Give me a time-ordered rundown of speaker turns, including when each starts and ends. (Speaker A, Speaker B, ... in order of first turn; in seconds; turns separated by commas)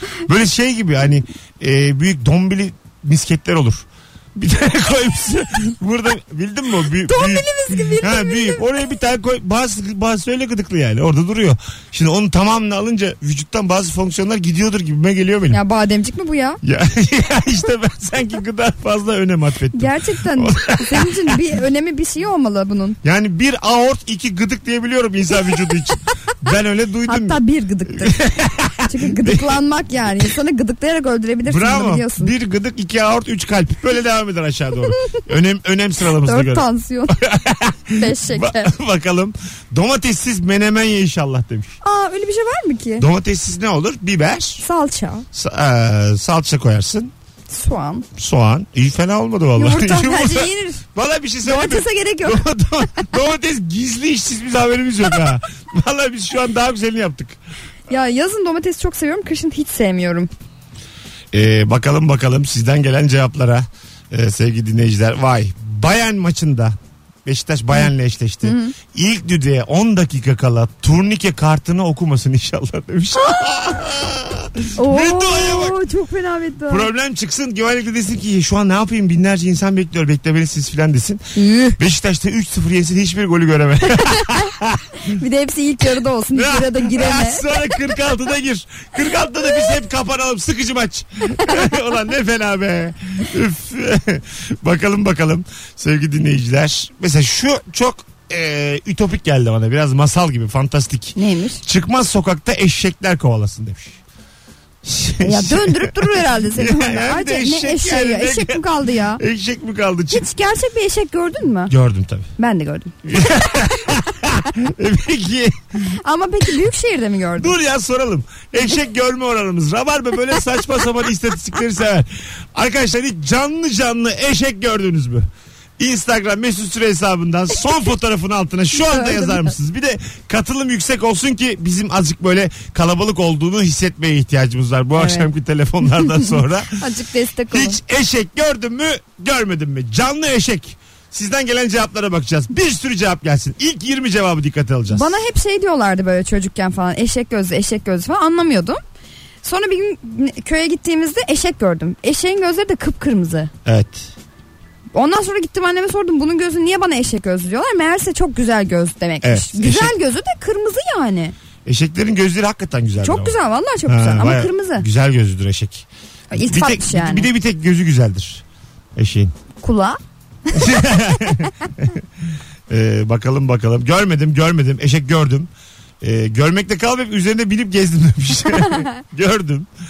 Speaker A: 0.2-15.6, Speaker B: 7.0-8.7, Speaker B: 15.5-16.6, Speaker A: 16.6-21.4, Speaker B: 19.7-23.0, Speaker A: 23.0-29.6, Speaker B: 27.1-28.1, Speaker B: 28.8-32.3, Speaker A: 31.4-41.8, Speaker B: 36.2-37.2, Speaker B: 37.9-38.7, Speaker B: 41.8-43.0, Speaker A: 43.0-44.6, Speaker B: 44.6-45.2, Speaker A: 45.3-47.1, Speaker B: 47.5-48.0, Speaker A: 48.1-57.4, Speaker B: 49.5-50.8, Speaker B: 51.4-52.4, Speaker B: 57.9-60.3, Speaker A: 61.3-75.8, Speaker B: 68.4-68.7, Speaker B: 74.8-76.9, Speaker A: 76.7-81.2, Speaker B: 81.3-81.8, Speaker A: 81.8-84.8, Speaker B: 84.0-84.4, Speaker B: 85.1-87.8, Speaker A: 86.3-104.0, Speaker B: 101.2-101.6, Speaker A: 104.8-110.2, Speaker B: 105.2-109.2, Speaker B: 110.1-111.7, Speaker A: 111.7-112.3, Speaker B: 112.4-112.9, Speaker A: 113.0-115.6, Speaker B: 116.0-117.5, Speaker A: 117.4-125.2, Speaker A: 125.8-136.8, Speaker B: 128.7-129.5, Speaker B: 134.9-135.3, Speaker B: 135.9-137.8, Speaker A: 137.5-145.2, Speaker B: 144.9-148.8, Speaker B: 149.4-153.5, Speaker A: 153.6-154.1, Speaker B: 154.9-161.3, Speaker A: 159.2-159.9, Speaker A: 161.6-163.3, Speaker B: 163.0-164.8, Speaker A: 163.8-168.4, Speaker B: 166.3-167.3, Speaker A: 168.9-169.3, Speaker B: 169.6-171.3, Speaker A: 170.5-172.0, Speaker A: 172.7-175.5, Speaker A: 176.0-179.7